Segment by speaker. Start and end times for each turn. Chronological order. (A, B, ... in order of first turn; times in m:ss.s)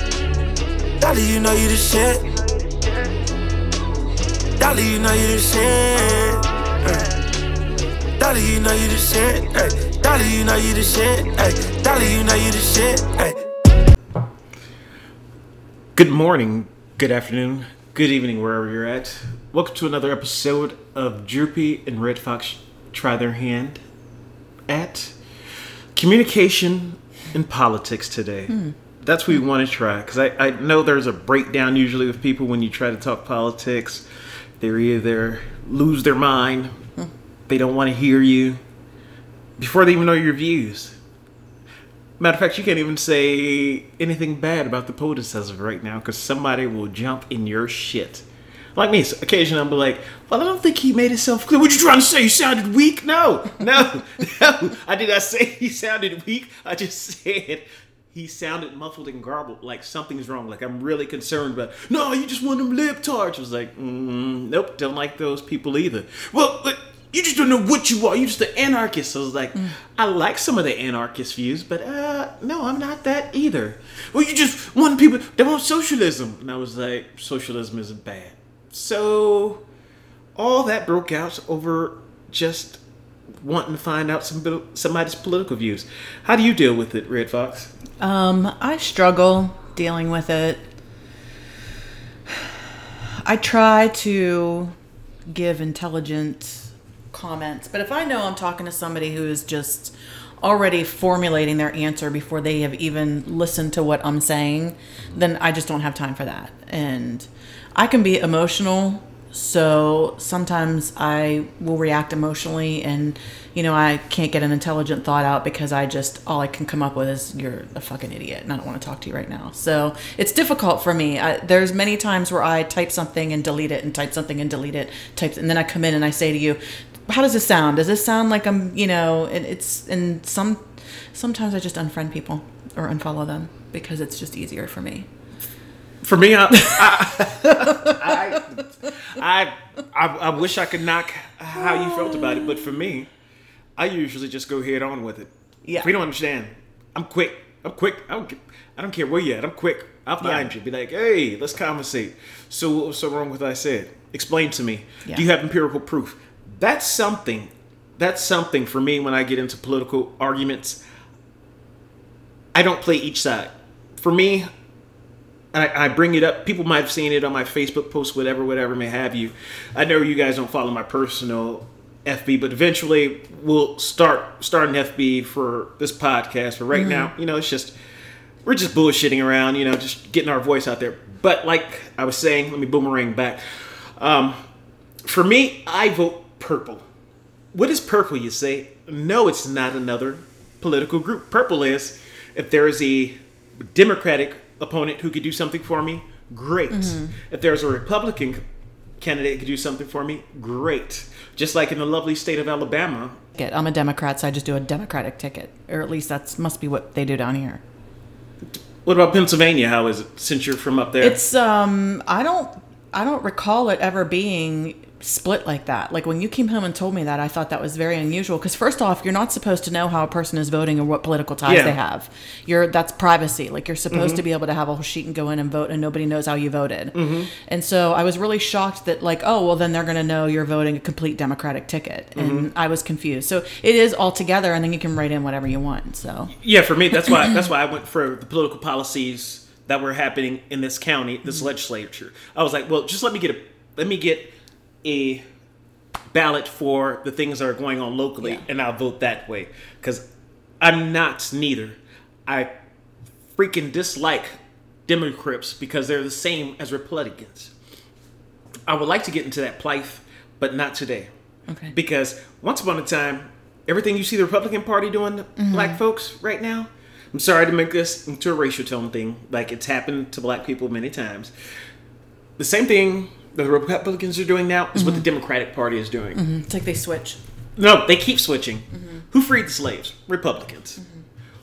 0:01.0-0:02.9 A
0:04.6-0:07.2 A
0:08.2-0:13.4 A
0:16.0-0:23.8 B
0:24.7-0:25.2 B
0:25.9-0:34.1 B
0:28.5-0:28.8 C
0:34.6-0:36.8 B
0:37.5-0:38.6 B
0:39.6-0:41.0 B
0:42.2-1:19.6 B
1:20.4-1:22.8 B
1:23.4-1:27.7 B
1:28.0-1:30.6 C
1:32.3-1:32.6 C
1:33.2-1:34.8 C
1:35.3-2:15.1 C
2:16.0-2:23.1 B
2:16.5-2:19.0 C
2:21.6-2:22.7 C
2:23.8-2:25.3 B
2:25.8-2:40.8 B
2:30.2-2:30.5 C
2:42.5-2:44.5 B
2:45.5-2:57.8 B
2:56.7-2:57.1 C
2:58.4-3:04.4 B
3:05.0-3:06.9 B
3:07.5-3:18.4 B
3:16.7-3:17.2 C
3:19.0-3:23.2 B
3:23.4-3:27.6 C
3:28.5-3:31.2 B
3:31.0-3:56.3 C
3:41.5-3:41.8 B
3:43.9-3:44.2 B
3:47.0-3:47.3 B
3:52.2-3:52.5 B
3:56.3-4:05.2 B
3:56.9-3:57.5 C
4:06.1-4:10.0 B
4:10.6-4:12.5 B
4:13.4-4:14.4 B
4:14.9-4:17.5 B
4:18.7-4:21.1 B
4:21.5-4:21.8 C
4:21.7-4:31.3 B
4:25.4-4:25.8 C
4:32.4-4:36.2 B
4:34.8-4:35.0 C
4:36.2-4:37.2 C
4:37.6-4:40.8 B
4:38.8-4:39.0 C
4:40.8-4:41.0 C